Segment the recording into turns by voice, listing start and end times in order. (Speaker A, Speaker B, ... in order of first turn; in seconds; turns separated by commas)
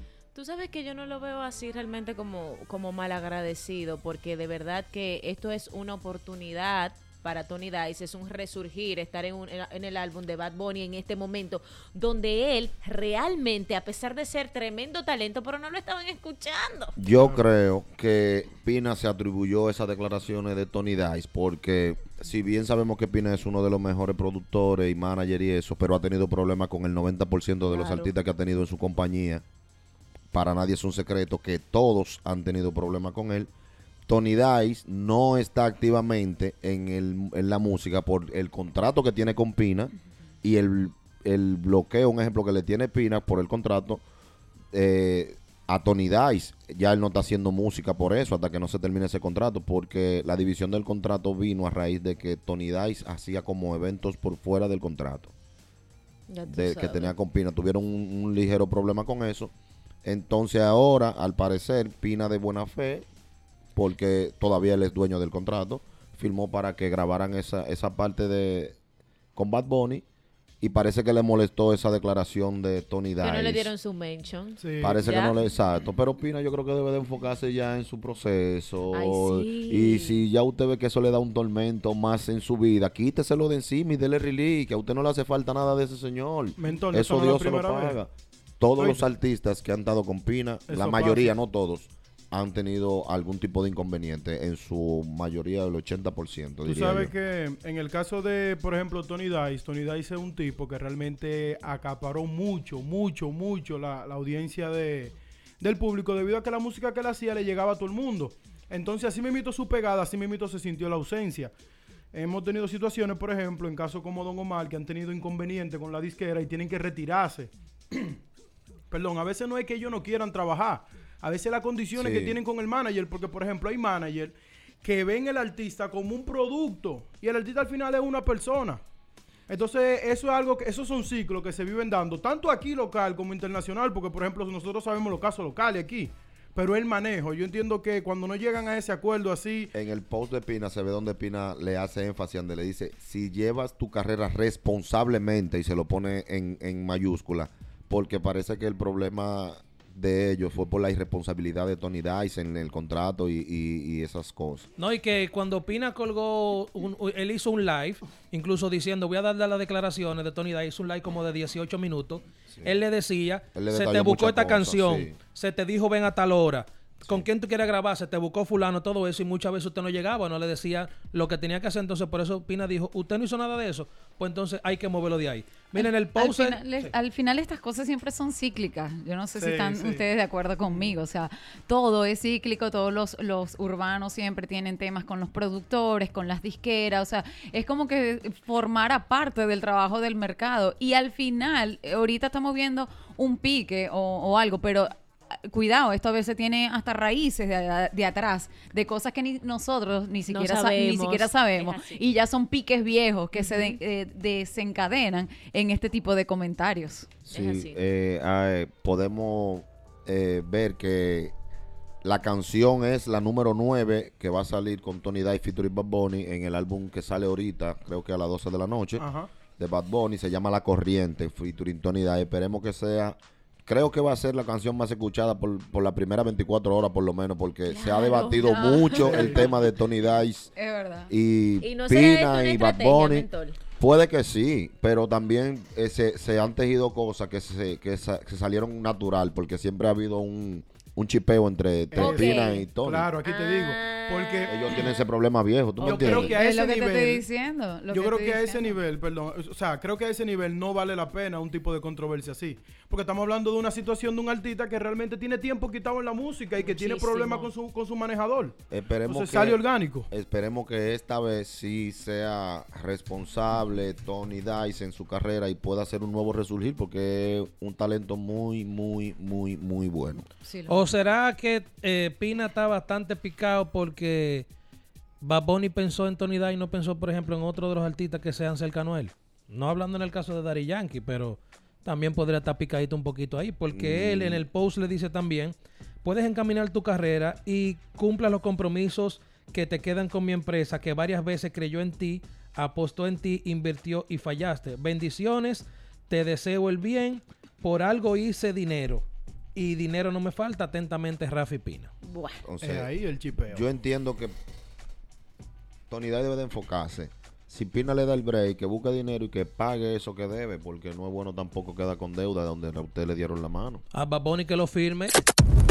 Speaker A: 0.3-16.9, Speaker B: 16.9-29.4, Speaker A: 27.7-28.1, Speaker B: 30.3-33.5, Speaker B: 34.1-44.0, Speaker B: 44.7-55.3, Speaker A: 56.3-57.1, Speaker B: 56.5-59.5, Speaker B: 60.0-63.0, Speaker B: 63.7-68.7, Speaker B: 69.3-70.0, Speaker B: 70.6-73.7, Speaker A: 73.2-75.3, Speaker C: 74.6-75.0, Speaker B: 74.8-97.1, Speaker A: 78.9-80.2, Speaker C: 86.6-88.0, Speaker C: 88.8-89.1, Speaker C: 90.7-91.3, Speaker C: 96.6-111.5, Speaker C: 112.1-118.2, Speaker C: 118.9-128.8, Speaker B: 122.0-122.4, Speaker C: 129.5-139.7, Speaker B: 139.7-154.7, Speaker D: 154.8-176.9, Speaker B: 163.5-165.1, Speaker E: 175.7-207.1, Speaker C: 179.3-180.0, Speaker A: 200.3-202.0, Speaker A: 203.3-203.8, Speaker B: 207.3-211.3, Speaker A: 207.3-207.8, Speaker B: 212.0-219.1, Speaker C: 219.0-219.3, Speaker B: 219.6-230.5, Speaker A: 227.7-229.6, Speaker E: 228.5-229.0, Speaker C: 229.0-229.5, Speaker E: 230.5-231.1, Speaker B: 231.1-243.1, Speaker A: 231.6-233.6, Speaker C: 241.9-244.8, Speaker A: 242.0-242.7, Speaker A: 243.2-245.0, Speaker B: 244.4-246.4, Speaker C: 245.8-247.2, Speaker E: 246.1-248.8, Speaker C: 247.9-260.1, Speaker A: 256.6-257.5, Speaker B: 258.7-270.2, Speaker E: 270.4-270.9, Speaker D: 270.7-274.4, Speaker D: 275.2-299.0, Speaker B: 283.7-284.4, Speaker D: 299.5-301.9, Speaker A: 302.0-302.4, Speaker B: 302.4-302.9, Speaker C: 302.6-303.7, Speaker B: 303.5-304.4, Speaker B: 305.9-313.8, Speaker D: 313.9-315.1